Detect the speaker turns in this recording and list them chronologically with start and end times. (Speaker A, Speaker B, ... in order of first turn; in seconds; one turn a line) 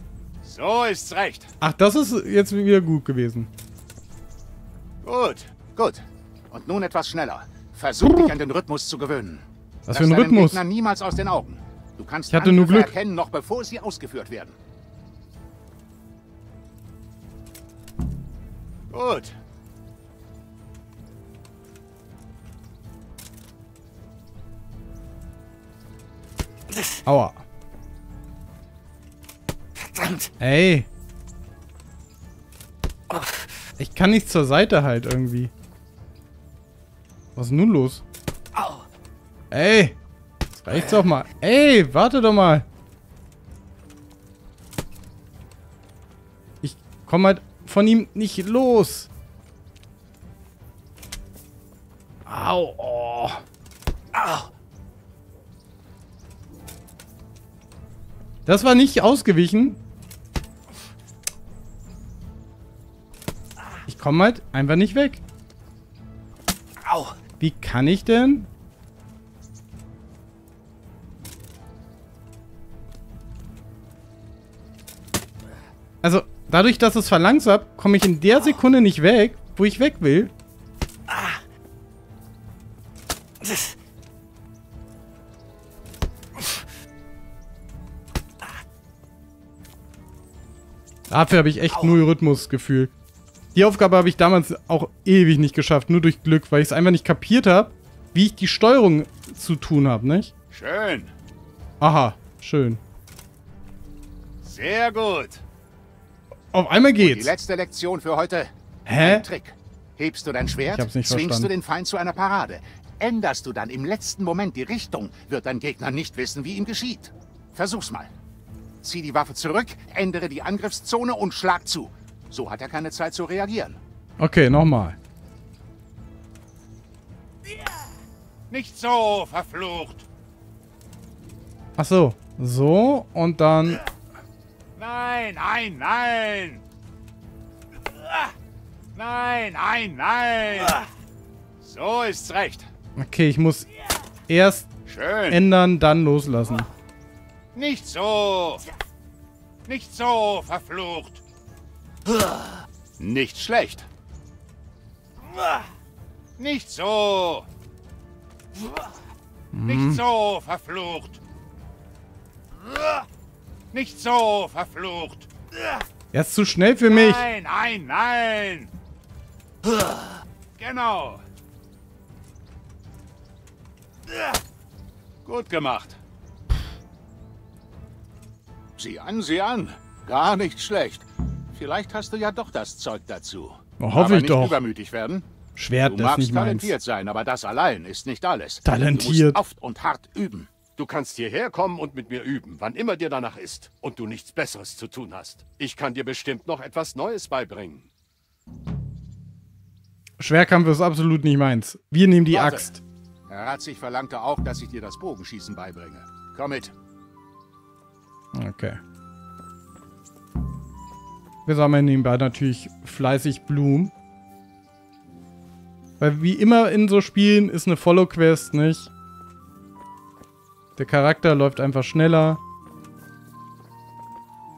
Speaker A: 0.4-1.5
Speaker B: 1.6-3.5
Speaker A: 5.0-14.6
Speaker B: 9.9-10.6
Speaker B: 12.3-12.9
Speaker A: 18.9-19.4
Speaker B: 27.0-27.4
Speaker B: 30.4-30.9
Speaker B: 33.8-35.5
Speaker B: 37.4-38.0
Speaker B: 39.5-40.0
Speaker B: 40.5-42.6
Speaker B: 46.6-49.1
Speaker B: 52.2-53.4
Speaker B: 58.5-59.8
Speaker B: 63.9-65.2
Speaker B: 67.4-68.5
Speaker B: 76.0-80.3
Speaker B: 91.1-92.9
Speaker B: 93.5-100.3
Speaker A: 100.5-101.1
Speaker B: 101.8-102.8
Speaker A: 104.4-105.4
Speaker B: 106.5-107.3
Speaker A: 107.0-118.1
Speaker B: 108.8-109.2
Speaker B: 110.7-111.5
Speaker A: 118.8-123.8
Speaker B: 124.2-125.0
Speaker A: 128.5-130.1
Speaker B: 131.8-133.8
Speaker A: 134.8-136.6
Speaker A: 138.9-140.8
Speaker A: 141.6-142.7
Speaker B: 143.0-143.7
Speaker B: 144.3-144.7
Speaker A: 144.8-145.4
Speaker B: 145.3-146.7
Speaker A: 147.5-148.6
Speaker A: 149.7-151.2
Speaker A: 153.0-153.9
Speaker A: 156.4-157.5
Speaker B: 159.5-160.0
Speaker A: 159.7-161.2
Speaker A: 162.7-163.0
Speaker A: 163.7-165.3
Speaker B: 166.1-167.2
Speaker A: 166.8-168.7
Speaker A: 170.6-171.2
Speaker A: 175.2-176.0
Speaker A: 178.8-185.3
Speaker B: 183.8-184.6
Speaker B: 185.6-186.7
Speaker A: 185.8-190.5
Speaker B: 188.6-189.4
Speaker C: 190.8-197.9
Speaker B: 200.2-202.8
Speaker A: 202.3-202.7
Speaker A: 203.3-206.7
Speaker B: 208.3-208.8
Speaker B: 211.4-213.9
Speaker B: 216.0-218.9
Speaker B: 220.8-222.4